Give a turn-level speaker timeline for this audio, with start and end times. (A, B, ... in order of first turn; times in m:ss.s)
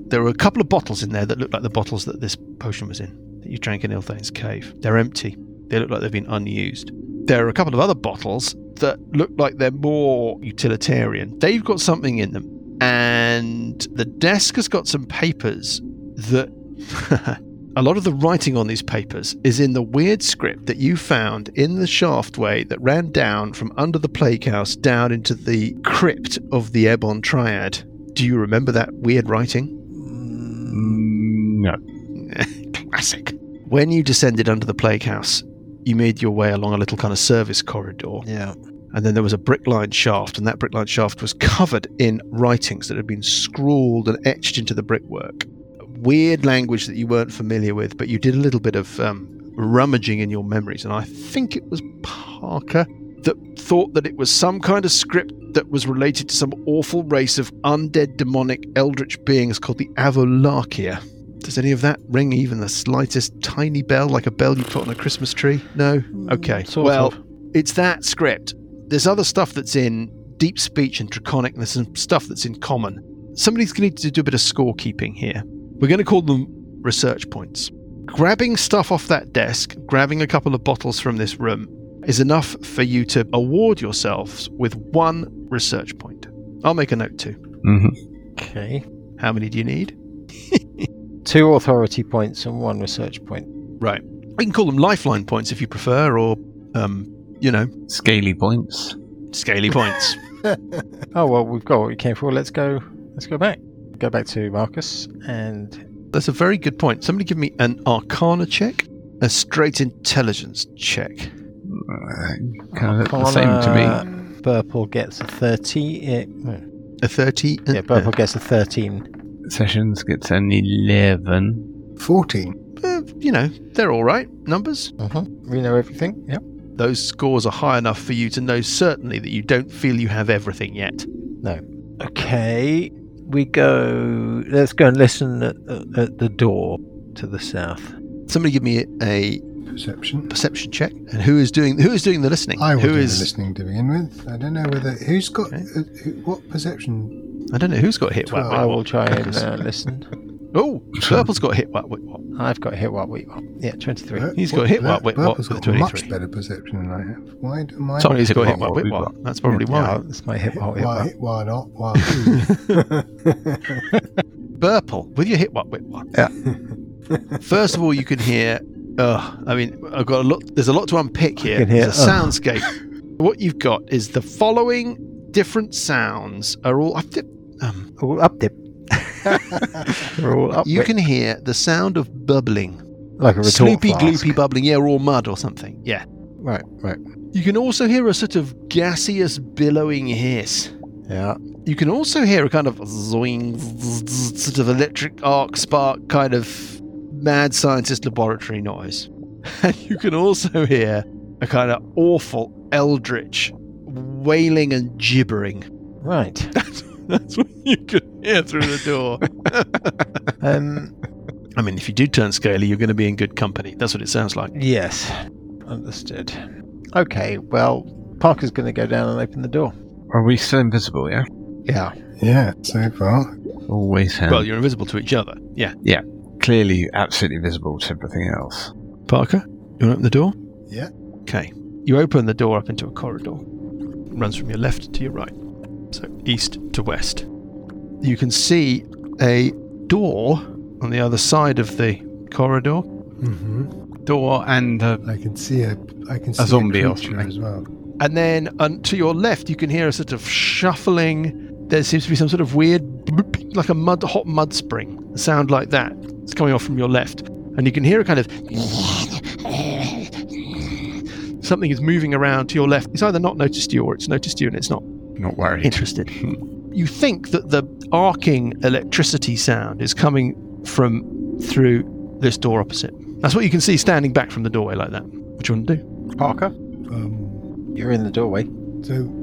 0:00.1-0:29.7 A
0:29.9-0:31.1 B
0:30.7-0:31.8 C
0:32.2-0:38.2 A
0:38.2-0:38.6 B
0:38.9-1:27.4 A
1:06.1-1:07.2 B
1:27.6-1:28.0 C
1:28.4-1:28.8 B
1:29.2-1:29.9 A
1:30.5-1:30.9 A
1:31.2-1:33.5 B
1:33.8-1:37.7 A
1:37.9-1:39.0 C
1:39.3-1:40.2 A
1:41.1-1:45.8 B
1:46.1-1:51.3 A
1:51.7-1:54.0 C
1:52.7-1:56.6 B
1:57.0-1:58.1 A
1:57.7-1:59.1 B
1:59.5-2:01.7 C
2:02.0-2:02.6 D
2:02.8-2:04.9 A
2:05.0-2:06.4 B
2:06.8-2:11.1 A
2:11.4-2:17.9 B
2:18.3-2:19.4 A
2:19.7-2:20.3 D
2:20.3-2:23.3 A
2:22.6-2:27.2 D
2:27.5-2:29.5 A
2:28.3-2:28.7 D
2:28.5-2:30.1 B
2:30.5-2:32.2 A
2:31.0-2:31.3 C
2:32.4-2:34.3 B
2:34.1-2:38.3 D
2:34.4-2:36.1 A
2:38.0-2:40.0 A
2:38.2-2:39.1 C
2:39.7-2:41.1 B
2:40.6-2:43.9 D
2:42.0-2:42.8 A
2:44.6-2:46.1 A
2:46.4-2:47.8 D
2:47.4-2:57.9 A
2:51.4-2:52.4 B
2:58.0-3:00.9 B
2:59.4-3:00.1 A
3:00.6-3:02.8 A
3:03.2-3:04.4 B
3:03.4-3:06.0 A
3:06.4-3:07.0 B
3:07.3-3:10.7 A
3:11.1-3:11.4 B
3:11.6-3:25.6 A
3:26.0-3:26.5 B
3:26.6-3:30.1 A
3:30.4-3:30.9 B
3:31.6-3:34.5 A
3:34.5-3:39.8 B
3:40.1-3:41.3 C
3:41.7-3:42.0 B
3:42.2-3:43.3 D
3:43.7-3:44.5 C
3:44.3-3:45.8 A
3:45.8-3:48.7 C
3:49.1-3:50.4 A
3:51.3-3:53.4 A
3:54.1-3:55.3 A
3:55.9-3:57.2 A
3:58.0-4:02.9 A
4:03.2-4:03.7 D
4:04.1-4:05.0 C
4:05.0-4:07.7 D
4:06.4-4:07.3 C
4:08.0-4:20.9 A
4:21.4-4:24.8 A
4:25.2-4:26.4 C
4:25.6-4:26.1 A
4:26.7-4:35.8 A
4:36.2-4:36.5 B
4:36.9-4:37.4 D
4:37.8-4:38.5 B
4:38.8-4:39.1 D